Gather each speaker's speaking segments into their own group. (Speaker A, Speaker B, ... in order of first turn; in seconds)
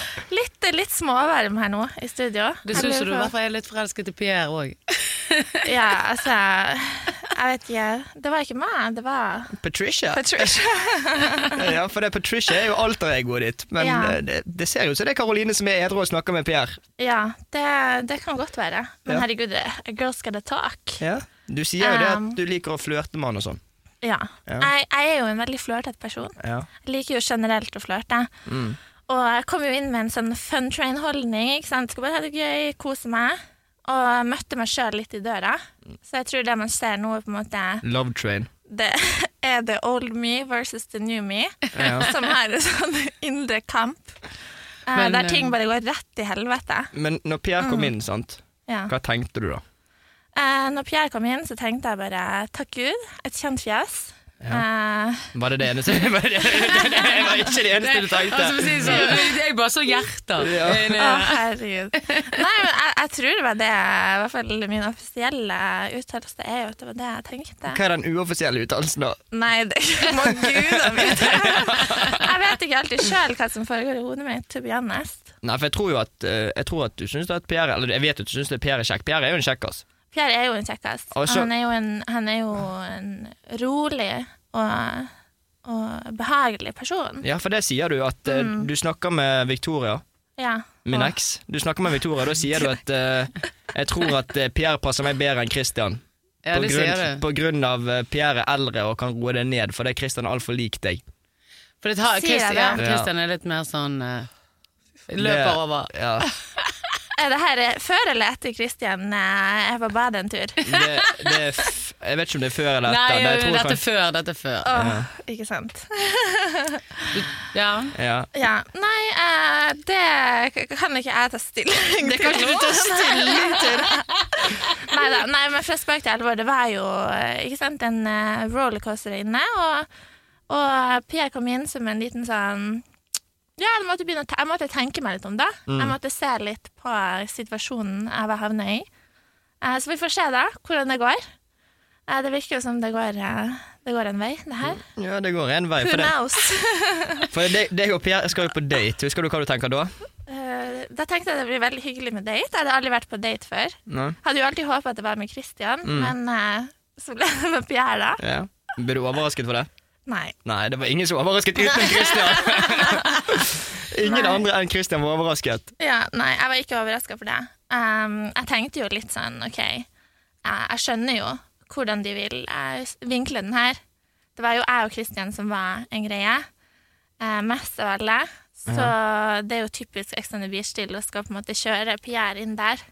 Speaker A: 0.2-3.3, 5.7-9.6, 10.1-11.7, 13.8-14.2, 17.0-21.0, 21.8-22.4, 24.0-28.3, 29.1-37.9, 38.7-44.2, 44.9-46.9, 47.6-47.9, 48.7-48.9, 50.4-55.3, 56.5-57.5, 58.8-59.2, 61.0-67.8, 69.3-75.3, 80.1-85.1, 85.6-87.3, 88.3-88.7, 90.4-91.2, 102.2-102.8, 107.2-110.8, 114.7-117.1, 118.3-129.9, 130.5-132.8, 133.6-138.9, 139.6-141.2, 142.1-144.8, 145.8-147.3, 150.3-158.2, 160.1-160.3, 161.7-163.2, 164.0-164.4, 165.8-169.9, 170.4-173.8, 174.4-176.5, 177.2-182.8
Speaker B: 2.6-5.7, 44.9-45.5, 57.8-61.4, 62.0-62.3, 96.5-97.2, 101.8-104.3, 105.1-106.3, 112.9-114.7, 117.1-118.0
Speaker C: 9.6-10.7, 11.5-16.8, 21.0-23.6, 26.4-26.7, 28.5-28.8, 37.8-38.5, 41.8-42.1, 46.9-49.6, 55.3-59.1, 60.4-61.0, 67.7-69.2, 70.2-72.2, 75.4-79.8, 81.1-81.5, 87.2-90.0, 90.9-101.0, 102.8-103.1, 105.2-106.3, 110.7-113.8, 114.8-115.1, 118.0-118.3, 122.1-123.9, 135.7-136.0, 144.7-146.1, 147.3-149.9, 153.9-154.2, 155.8-156.1, 158.2-159.7, 160.4-165.7, 178.7-178.9